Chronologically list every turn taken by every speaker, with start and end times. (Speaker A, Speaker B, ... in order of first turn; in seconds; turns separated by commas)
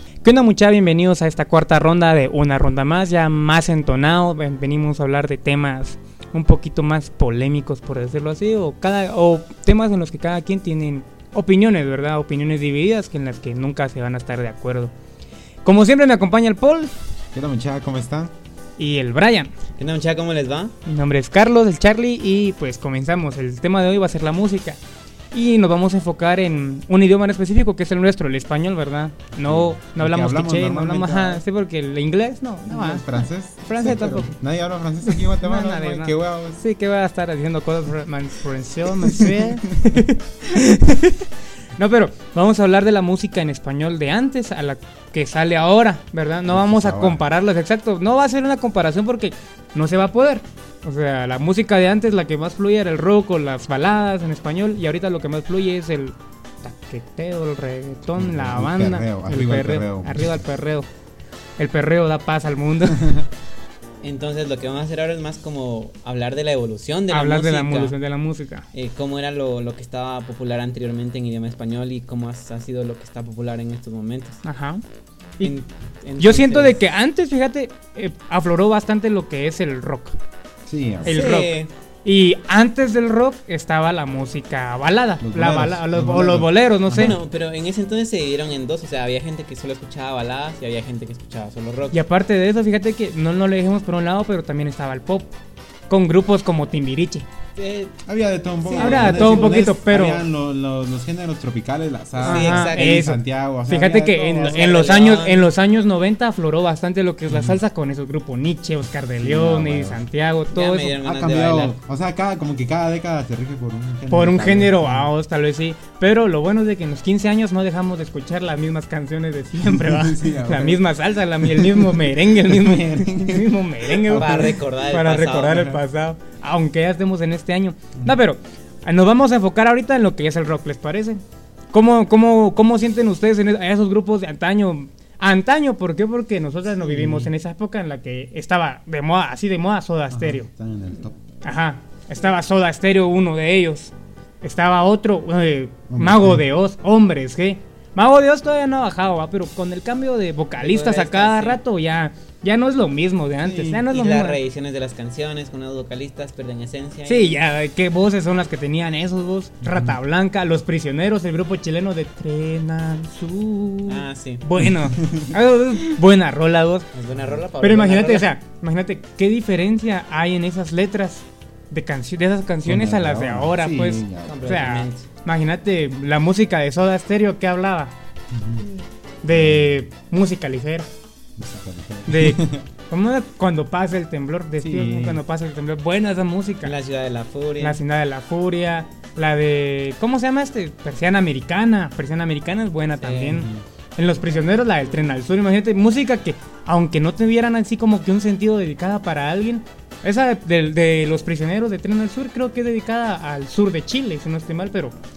Speaker A: 0.2-14.9, Speaker A: 15.6-16.9, Speaker B: 17.3-18.3, Speaker A: 18.8-19.5, Speaker C: 19.8-20.7, Speaker A: 20.8-24.8, Speaker A: 25.3-34.3, Speaker B: 29.4-31.4, Speaker B: 32.6-36.6, Speaker A: 35.0-41.2, Speaker B: 39.0-40.0, Speaker A: 41.8-60.9, Speaker B: 46.5-47.2, Speaker B: 58.2-60.5, Speaker A: 61.6-63.2, Speaker B: 62.9-63.2, Speaker C: 64.0-68.0, Speaker A: 67.1-68.7, Speaker C: 68.7-74.4, Speaker A: 74.4-74.8, Speaker C: 75.4-76.8, Speaker A: 76.2-80.1, Speaker B: 80.7-81.3, Speaker A: 81.0-87.2, Speaker C: 81.0-81.7, Speaker B: 85.2-87.2, Speaker C: 86.9-92.0, Speaker A: 91.9-95.3, Speaker A: 95.9-97.3, Speaker C: 97.5-98.0, Speaker B: 98.0-104.8, Speaker C: 98.6-99.7, Speaker A: 98.8-100.2, Speaker C: 102.2-102.9, Speaker A: 102.2-111.0, Speaker C: 104.3-105.5, Speaker B: 107.3-107.6, Speaker B: 109.2-110.0, Speaker C: 110.5-111.7, Speaker B: 111.0-115.1, Speaker A: 114.1-131.2, Speaker B: 119.6-124.6, Speaker C: 124.1-125.8, Speaker A: 131.7-140.5, Speaker B: 136.8-137.3, Speaker B: 140.1-141.2, Speaker A: 141.4-154.4, Speaker B: 145.9-146.4, Speaker C: 150.6-151.6, Speaker B: 153.4-153.8, Speaker C: 153.8-157.4, Speaker A: 157.1-166.9, Speaker B: 159.6-160.0, Speaker C: 163.9-164.4, Speaker B: 164.6-165.3, Speaker C: 166.9-168.3, Speaker A: 167.6-177.9, Speaker B: 172.6-174.5, Speaker C: 174.2-175.1, Speaker B: 178.3-178.6, Speaker A: 179.2-180.9, Speaker B: 179.3-179.8, Speaker B: 181.4-182.7, Speaker A: 182.1-186.7, Speaker B: 184.6-185.2, Speaker C: 186.6-187.8, Speaker A: 187.6-204.9, Speaker C: 193.0-193.5, Speaker B: 193.3-193.6